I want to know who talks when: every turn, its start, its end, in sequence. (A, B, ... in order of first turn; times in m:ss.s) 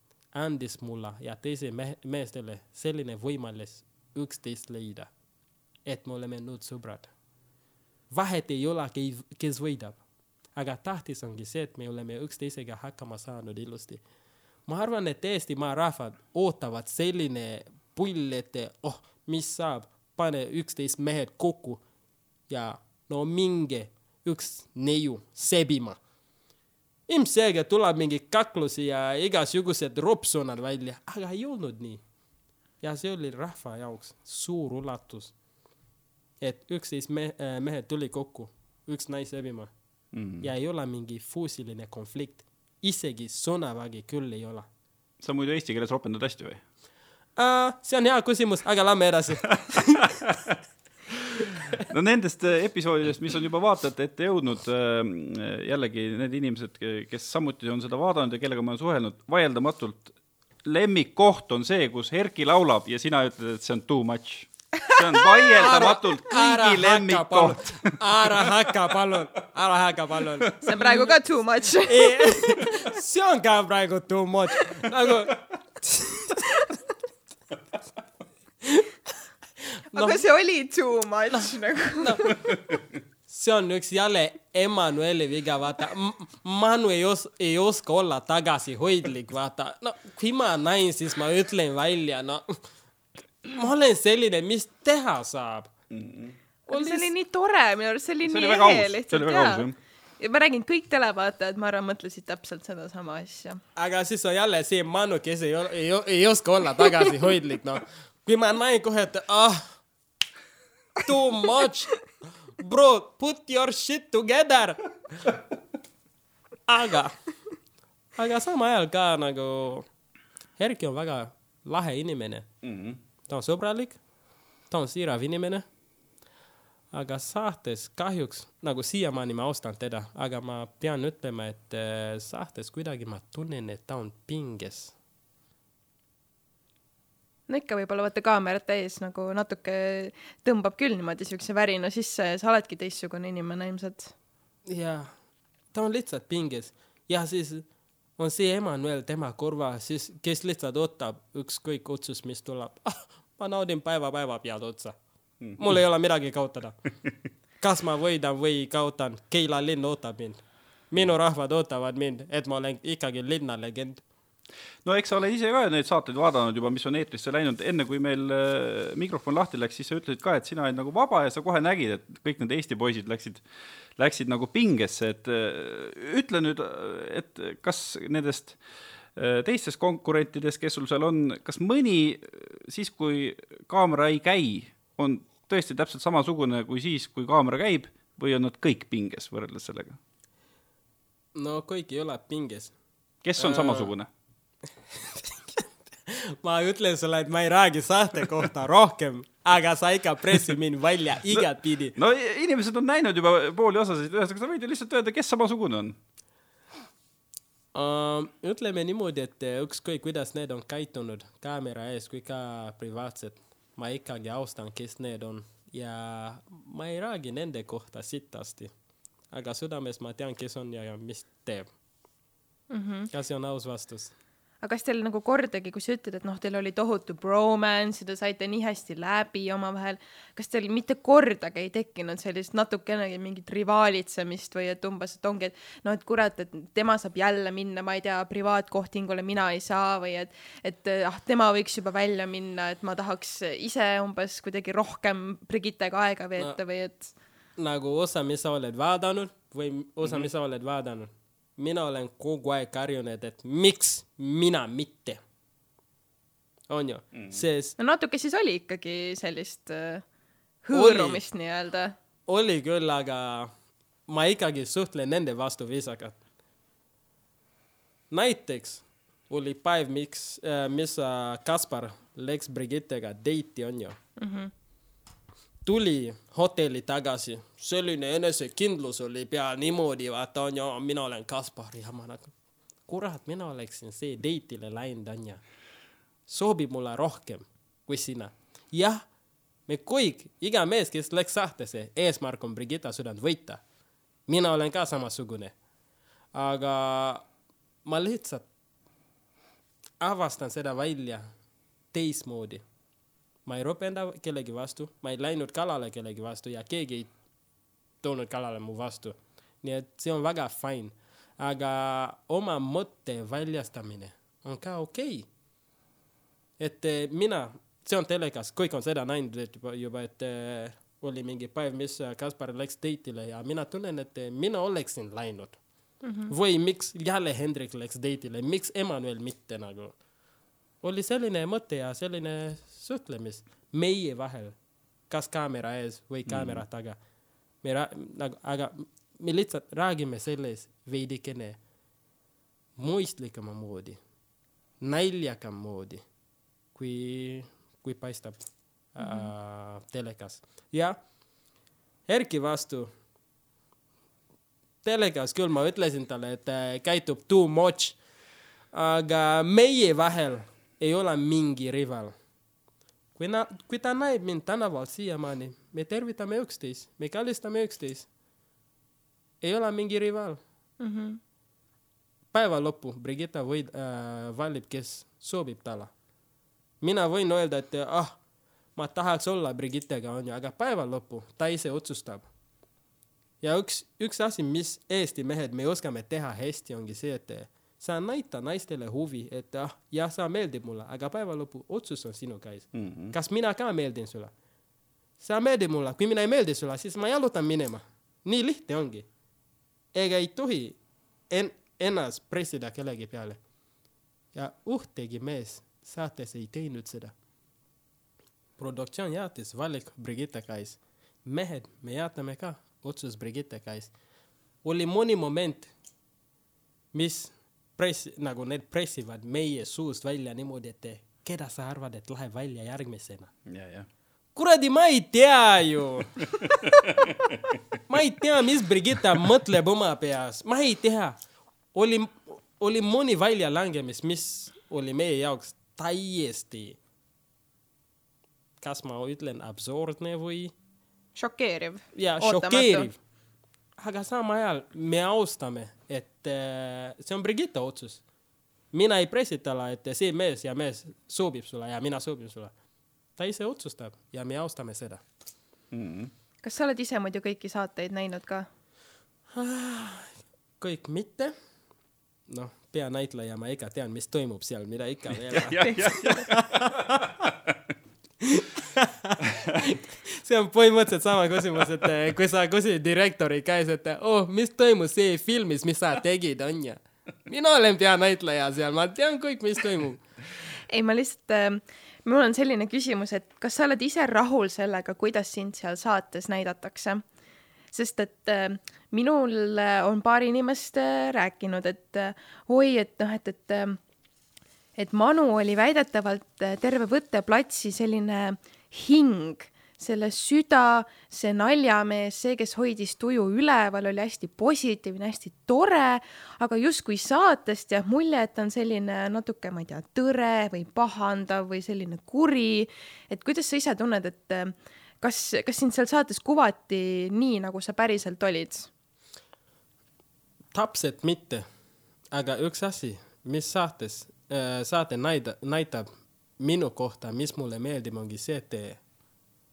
0:00.3-0:05.1 A
0:05.8-0:07.1 A
0:08.1-0:10.0 A
0:10.6-0:14.0 A
0:14.7-0:21.8 A
0:22.5-0:26.0 A
0:27.1-0:32.0 A
0:32.8-0:35.3 A
0:36.4-0:39.7 A
0:40.1-0:40.5 B
0:40.4-0:44.7 A
0:45.2-0:46.6 B
0:47.4-0:50.2 A
0:50.1-0:50.5 B
0:51.8-1:08.5 B
1:05.6-1:11.2 A
1:10.6-1:12.7 C
1:11.8-1:16.3 A
1:19.9-1:20.2 A
1:19.9-1:22.4 C
1:21.3-1:22.4 A
1:22.5-1:22.8 B
1:23.3-1:32.6 A
1:33.4-1:35.7 A
1:35.9-1:36.3 B
1:36.7-1:39.7 C
1:36.7-1:37.1 A
1:38.2-1:39.8 B
1:40.2-1:43.6 C
1:43.8-1:49.7 A
1:51.0-1:51.9 A
1:52.6-1:55.3 A
1:56.7-1:57.1 A
1:58.2-1:59.9 A
2:00.6-2:02.5 A
2:02.6-2:03.0 B
2:03.3-2:04.0 A
2:04.7-2:05.6 A
2:06.9-2:14.9 A
2:17.5-2:24.1 C
2:24.6-2:25.1 A
2:25.7-2:27.6 A
2:28.2-2:35.0 A
2:35.6-2:36.8 A
2:37.6-2:44.0 A
2:44.8-2:53.4 B
2:54.0-2:58.6 B
2:59.2-3:10.0 B
3:11.3-3:12.7 A
3:13.2-3:14.1 B
3:13.4-3:13.9 A
3:15.0-3:22.0 A
3:22.0-3:26.0 B
3:27.7-3:38.7 A
3:39.3-3:41.7 A
3:42.7-3:43.1 C
3:43.1-3:44.1 A
3:44.6-4:07.1 C
4:07.6-4:15.2 A
4:16.7-4:17.8 A
4:17.8-4:20.0 C
4:20.6-4:21.9 C
4:20.7-4:21.2 A
4:22.3-4:23.5 A
4:24.1-4:26.2 A
4:28.1-4:34.0 A
4:34.2-4:34.5 C
4:35.6-4:42.3 A
4:42.9-4:45.4 A
4:46.3-4:49.0 A
4:49.7-4:53.6 A
4:54.3-4:55.5 A
4:56.3-4:57.2 A
4:57.8-4:58.4 A
5:00.0-5:01.2 A
5:01.9-5:02.6 A
5:03.4-5:07.1 A
5:08.0-5:15.3 A
5:16.6-5:25.6 A
5:26.0-5:26.3 C
5:26.3-5:29.9 A
5:30.8-5:34.5 A
5:35.1-5:37.0 A
5:36.2-5:36.6 B
5:37.6-5:41.6 A
5:42.8-5:44.0 A
5:44.8-5:46.0 A
5:46.7-5:48.4 A
5:48.9-5:51.0 A
5:49.0-5:49.3 C
5:52.1-5:52.9 A
5:54.8-5:58.0 A
5:58.7-6:02.1 A
6:03.2-6:08.1 A
6:09.4-6:10.4 A
6:10.8-6:11.2 C
6:12.3-6:15.9 A
6:16.8-6:18.2 A
6:18.8-6:22.2 A
6:23.4-6:34.3 A
6:32.7-6:33.1 B
6:35.2-6:39.1 A
6:39.9-6:40.8 A
6:41.3-6:43.4 A
6:44.3-6:47.1 A
6:48.6-6:53.9 A
6:54.6-6:55.7 A
6:56.9-7:03.3 A
7:03.4-7:03.9 B
7:04.3-7:06.2 A
7:06.8-7:07.6 B
7:07.9-7:11.2 A
7:11.7-7:16.8 A
7:18.6-7:20.5 A
7:21.2-7:22.9 C
7:21.9-7:23.0 A
7:23.8-7:28.0 A
7:28.7-7:32.5 A
7:33.2-7:35.0 A
7:35.7-7:36.1 B
7:36.4-7:38.5 C
7:39.3-7:41.3 A
7:42.3-7:47.3 A
7:45.3-7:47.6 B
7:45.6-7:45.9 C
7:48.2-8:00.0 A
8:00.7-8:07.0 C
8:07.7-8:13.8 C
8:14.8-8:38.7 C
8:40.5-8:41.4 A
8:42.1-8:45.9 A
8:46.4-8:48.8 A